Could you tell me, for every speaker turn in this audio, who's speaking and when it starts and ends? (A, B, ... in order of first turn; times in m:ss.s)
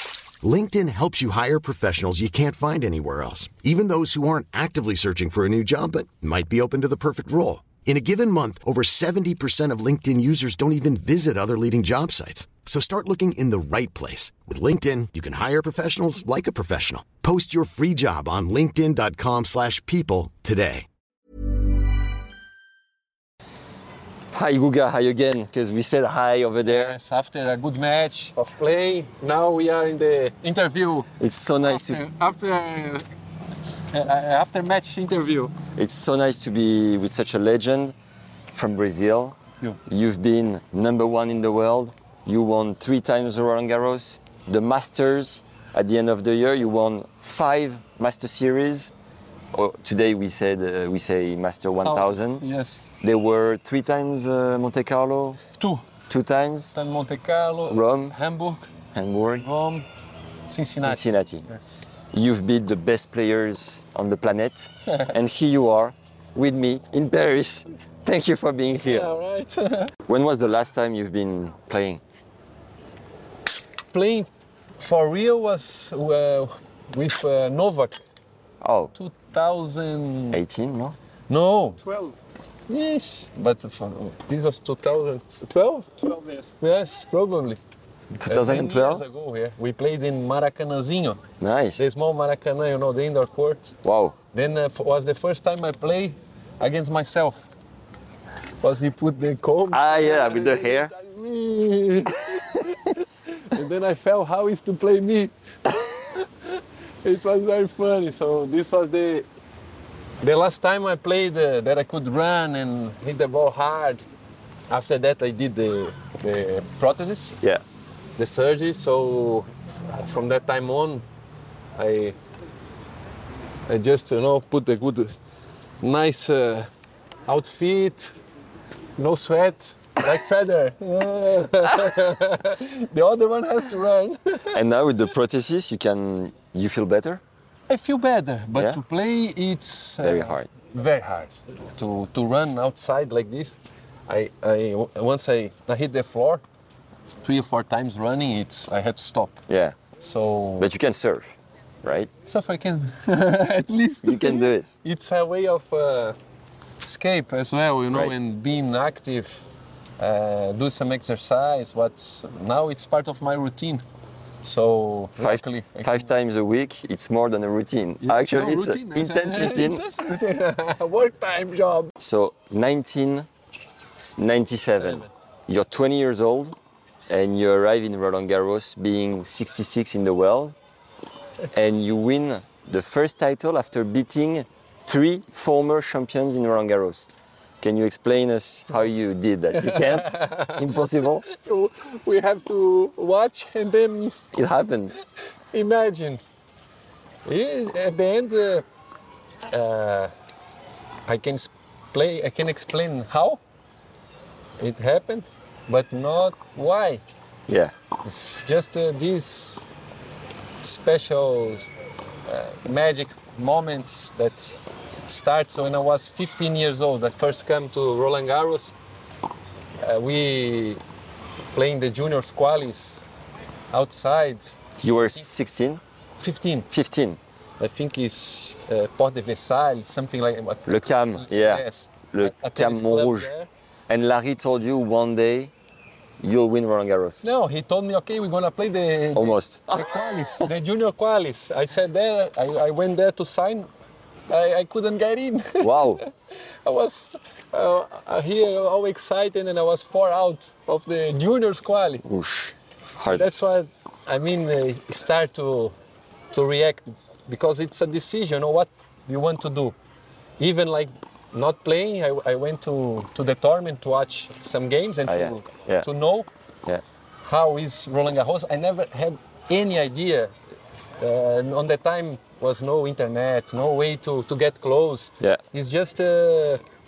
0:00.4-0:20.9 A
0:24.3-0:27.0 B
0:26.6-0:31.1 C
0:31.2-0:32.0 B
0:31.6-0:33.1 C
0:33.9-0:35.5 C
0:35.8-0:37.9 B
0:38.5-0:48.9 B
0:49.5-0:52.4 B
0:51.8-0:52.8 C
0:53.0-0:55.4 B
0:55.6-0:55.8 C
0:56.1-0:56.7 B
0:56.8-0:58.7 C
0:57.7-0:58.2 B
0:58.9-0:59.4 B
0:59.4-0:59.9 C
1:00.5-1:01.8 C
1:00.8-1:01.5 B
1:02.1-1:09.1 B
1:08.9-1:09.9 C
1:10.1-1:12.0 B
1:13.9-1:18.0 C
1:18.6-1:18.9 B
1:18.9-1:20.4 C
1:20.3-1:21.0 B
1:21.3-1:21.8 C
1:22.7-1:27.6 C
1:28.1-1:29.0 B
1:28.3-1:31.2 C
1:31.4-1:31.8 B
1:31.8-1:33.7 C
1:33.8-1:34.2 B
1:34.3-1:37.5 C
1:38.6-1:49.3 C
1:39.7-1:40.9 B
1:50.2-1:54.0 C
1:54.7-1:57.4 C
1:58.2-2:01.0 C
2:01.8-2:02.2 C
2:03.7-2:05.2 C
2:05.8-2:06.7 C
2:07.3-2:08.2 C
2:09.0-2:14.6 C
2:14.5-2:17.2 B
2:17.7-2:26.4 C
2:20.0-2:20.5 B
2:27.2-2:29.4 C
2:29.5-2:29.8 B
2:30.0-2:30.7 C
2:30.6-2:32.1 B
2:32.3-2:36.2 C
2:34.0-2:34.7 B
2:36.8-2:39.5 C
2:40.0-2:43.8 C
2:44.4-2:46.1 C
2:45.2-2:49.8 B
2:48.0-2:51.9 C
2:52.0-2:53.3 B
2:54.0-2:56.6 B
2:54.8-2:55.1 C
2:57.1-3:00.6 B
3:01.5-3:07.1 B
3:07.6-3:11.3 B
3:09.5-3:10.6 C
3:11.3-3:14.2 C
3:14.3-3:14.9 B
3:15.5-3:16.2 C
3:17.3-3:18.6 C
3:19.5-3:20.1 C
3:21.1-3:23.4 C
3:24.6-3:27.0 C
3:27.5-3:27.7 B
3:28.0-3:29.6 C
3:30.6-3:31.7 C
3:32.3-3:38.7 C
3:39.8-3:40.8 C
3:41.6-3:43.0 C
3:43.7-3:44.6 C
3:44.8-3:45.8 B
3:46.2-3:46.7 C
3:46.7-3:47.2 B
3:47.6-3:53.5 C
3:50.7-3:53.3 B
3:53.9-3:55.5 B
3:56.2-3:57.2 B
3:57.2-4:03.7 C
3:59.2-4:00.5 B
4:04.3-4:06.1 C
4:05.6-4:06.0 B
4:06.6-4:12.0 C
4:12.0-4:13.3 B
4:13.1-4:15.8 C
4:16.3-4:19.8 C
4:20.4-4:26.3 C
4:25.1-4:25.9 B
4:27.2-4:30.4 C
4:31.0-4:36.6 C